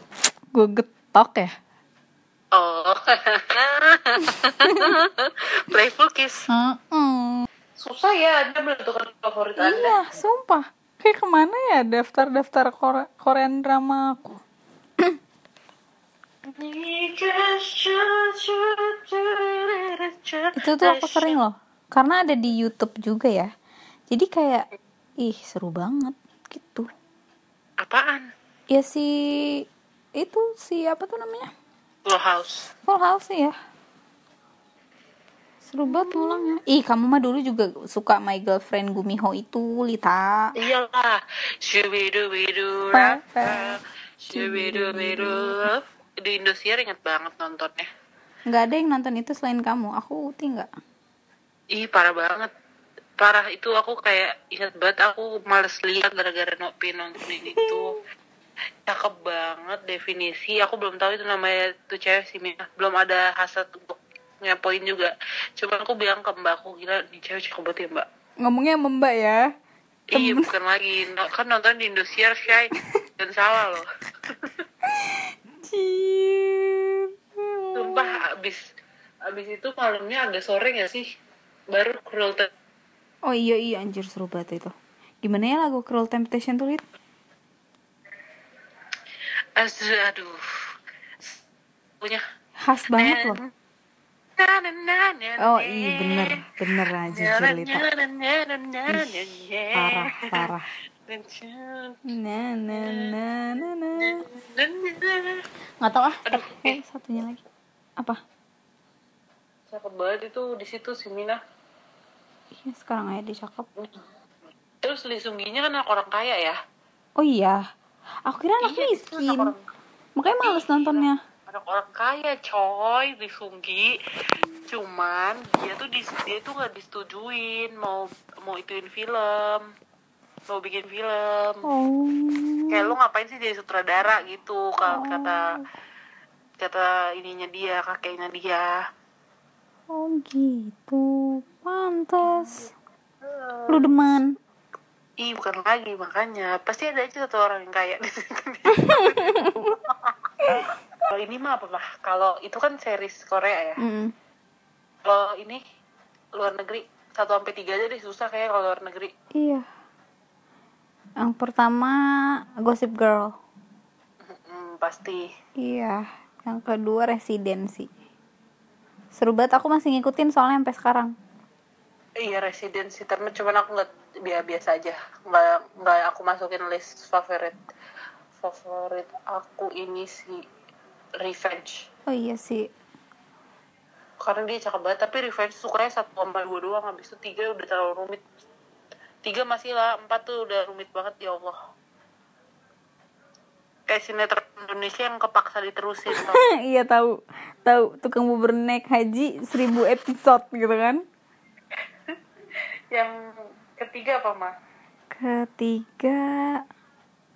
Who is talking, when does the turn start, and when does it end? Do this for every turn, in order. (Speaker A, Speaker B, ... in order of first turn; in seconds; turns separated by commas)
Speaker A: 0.5-1.5, Speaker B: 2.5-6.5, Speaker A: 4.6-5.0, Speaker A: 6.5-7.5, Speaker B: 7.8-9.9, Speaker A: 9.6-14.4, Speaker B: 16.5-21.4, Speaker A: 20.6-23.5, Speaker A: 24.1-24.7, Speaker A: 25.2-26.9, Speaker B: 27.8-28.3, Speaker A: 28.7-29.1, Speaker A: 30.2-31.5, Speaker B: 32.1-32.7, Speaker A: 32.9-33.5, Speaker A: 35.7-40.5, Speaker B: 35.9-36.4, Speaker B: 40.6-47.9, Speaker A: 42.9-43.8, Speaker A: 44.3-45.6, Speaker A: 48.5-50.7, Speaker B: 51.7-52.5, Speaker B: 53.2-58.0, Speaker B: 58.9-68.1, Speaker A: 68.4-69.4, Speaker B: 70.1-74.6, Speaker A: 70.1-70.5, Speaker A: 75.7-78.1, Speaker B: 77.8-78.6, Speaker B: 79.3-81.1, Speaker B: 81.7-82.5, Speaker A: 83.3-86.8, Speaker B: 89.6-90.5, Speaker A: 92.6-93.4, Speaker B: 93.0-93.5, Speaker B: 94.4-96.4, Speaker A: 95.4-97.9, Speaker B: 97.1-100.5, Speaker A: 99.7-100.7, Speaker B: 101.1-102.0, Speaker A: 102.1-104.2, Speaker B: 102.7-103.1, Speaker B: 104.0-105.4, Speaker A: 105.8-107.4, Speaker B: 106.3-106.8, Speaker B: 109.7-111.4, Speaker A: 112.7-113.7, Speaker B: 114.8-116.6, Speaker A: 117.2-117.6, Speaker A: 118.3-119.5, Speaker B: 118.6-119.6, Speaker A: 120.2-121.2, Speaker B: 120.4-123.9, Speaker B: 124.7-129.7, Speaker B: 130.5-131.6, Speaker A: 131.7-132.8, Speaker B: 132.7-135.5, Speaker A: 134.9-135.3, Speaker B: 136.6-138.8, Speaker A: 139.9-142.7, Speaker B: 143.2-143.9, Speaker A: 143.7-144.3, Speaker B: 145.2-153.8, Speaker A: 148.9-149.7, Speaker A: 153.8-154.1, Speaker B: 155.1-155.6, Speaker B: 156.4-159.1, Speaker A: 159.4-159.6, Speaker A: 161.2-161.9, Speaker A: 162.7-163.3, Speaker B: 164.2-165.3, Speaker A: 165.6-167.9, Speaker A: 169.2-171.1, Speaker B: 172.2-177.6, Speaker B: 178.4-180.4, Speaker B: 181.2-181.9, Speaker A: 182.1-182.7, Speaker B: 184.2-188.2, Speaker B: 189.2-191.6, Speaker B: 193.9-196.4, Speaker A: 196.4-197.1, Speaker A: 197.7-201.0, Speaker B: 203.8-204.5, Speaker A: 205.2-206.2